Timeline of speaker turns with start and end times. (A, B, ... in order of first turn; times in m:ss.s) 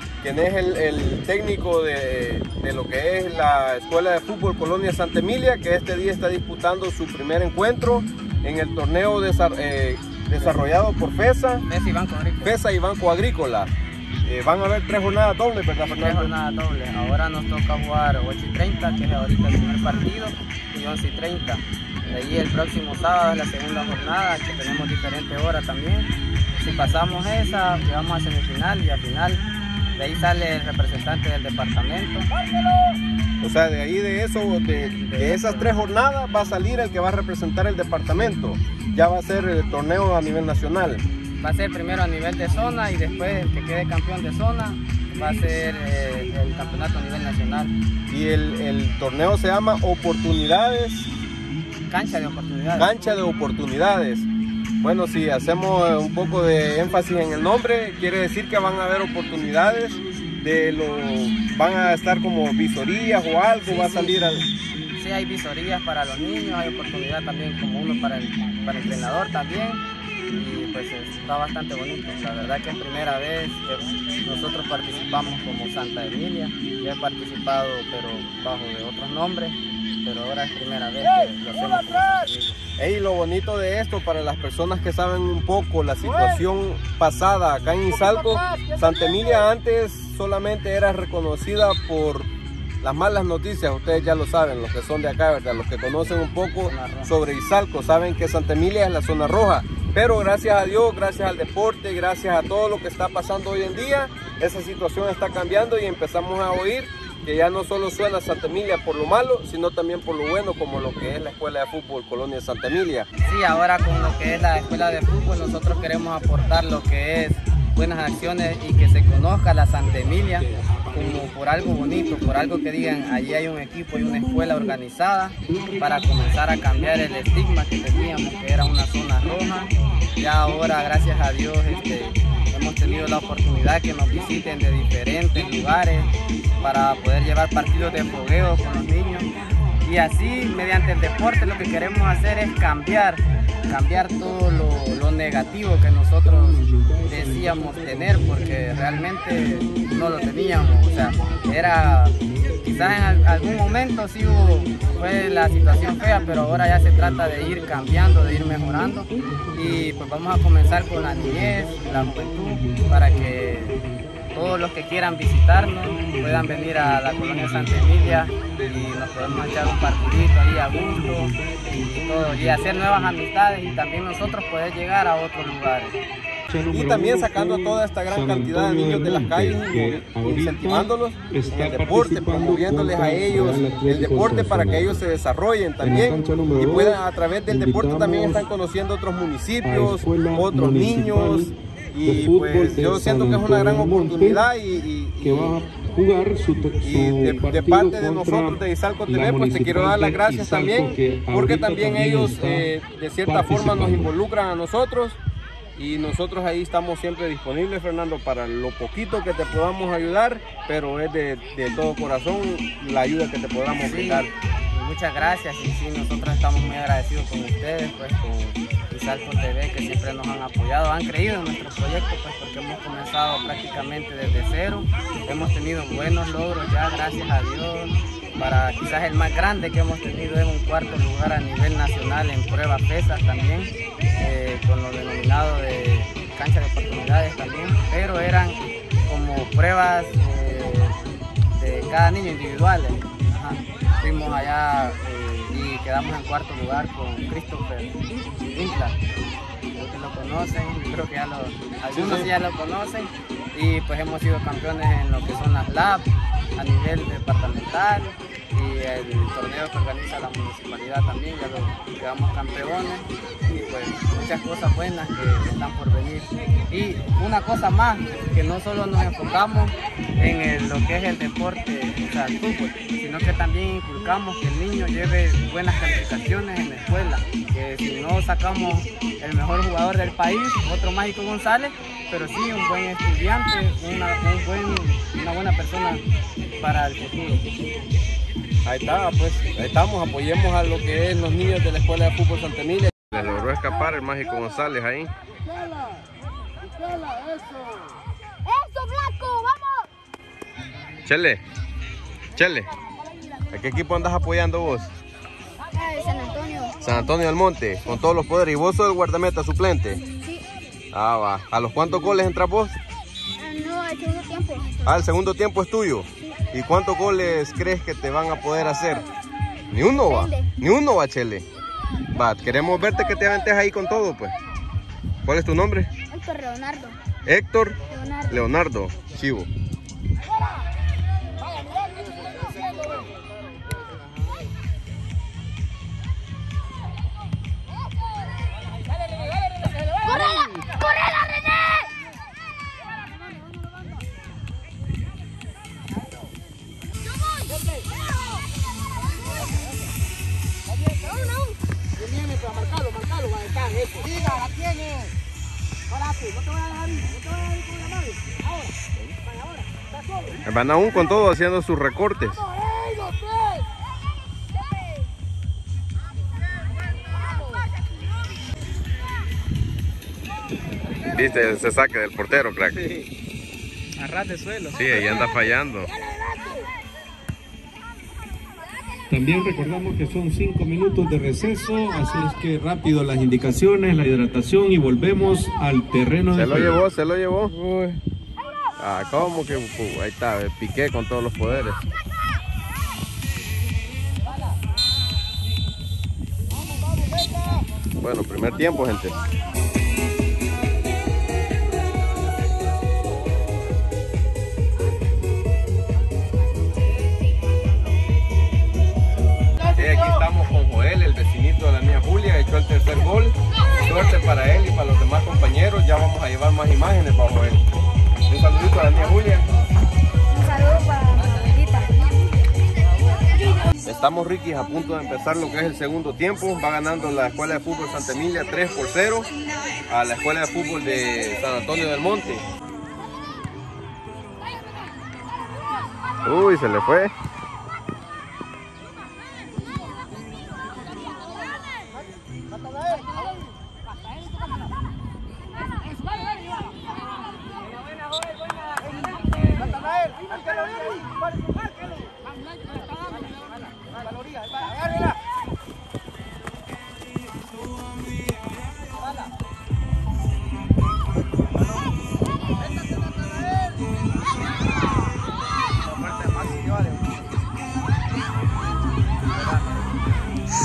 0:00.2-0:11.6 A
0:11.7-0:12.5 B
0:12.4-0:13.7 A
0:14.2-0:16.3 A
0:15.9-0:32.3 B
0:33.4-0:41.0 A
0:34.9-0:35.7 B
0:41.4-0:47.7 B
0:48.1-0:51.1 A
0:51.9-0:52.9 B
0:52.8-0:54.3 A
0:54.8-1:04.5 A
1:03.8-1:04.1 B
1:04.9-1:22.6 B
1:22.8-1:32.3 A
1:32.8-1:53.1 A
1:36.6-1:37.1 B
1:53.2-2:19.3 B
2:19.8-2:43.8 B
2:44.3-2:51.4 B
2:52.0-2:56.0 B
2:56.5-3:05.0 C
2:56.7-3:15.6 A
3:05.8-3:08.5 C
3:09.6-3:11.5 C
3:12.0-3:14.4 C
3:15.2-3:22.7 C
3:16.8-3:25.2 A
3:23.2-3:24.1 C
3:25.8-3:34.3 A
3:33.8-4:01.0 B
4:01.6-4:09.0 B
4:09.7-4:46.0 B
4:11.9-4:12.3 A
4:46.6-4:47.6 B
4:48.6-4:55.1 A
4:58.4-4:59.8 D
5:01.0-5:01.4 A
5:02.3-5:02.7 A
5:03.5-5:04.9 A
5:05.7-5:06.8 D
5:06.8-5:10.0 A
5:10.9-5:12.8 A
5:13.4-5:15.0 D
5:14.8-5:19.0 A
5:19.7-5:21.4 A
5:20.1-5:20.5 D
5:22.1-5:24.3 A
5:25.2-5:25.9 A
5:26.1-5:27.0 D
5:27.2-5:29.5 A
5:27.9-5:28.4 D
5:52.4-5:53.0 B
6:00.4-6:02.4 A
6:11.1-6:12.8 A
6:12.7-6:13.1 B
6:14.0-6:15.3 B
6:14.7-6:15.9 A
6:19.1-6:26.8 C
6:26.3-6:28.0 A
6:28.8-6:31.9 A
6:38.0-6:39.2 A
6:49.7-6:57.6 A
6:58.3-6:59.5 A
7:00.3-7:01.9 D
7:03.8-7:09.3 A
7:09.9-7:12.4 A
7:16.2-7:17.1 A
7:46.0-7:46.9 B
7:49.4-7:49.6 B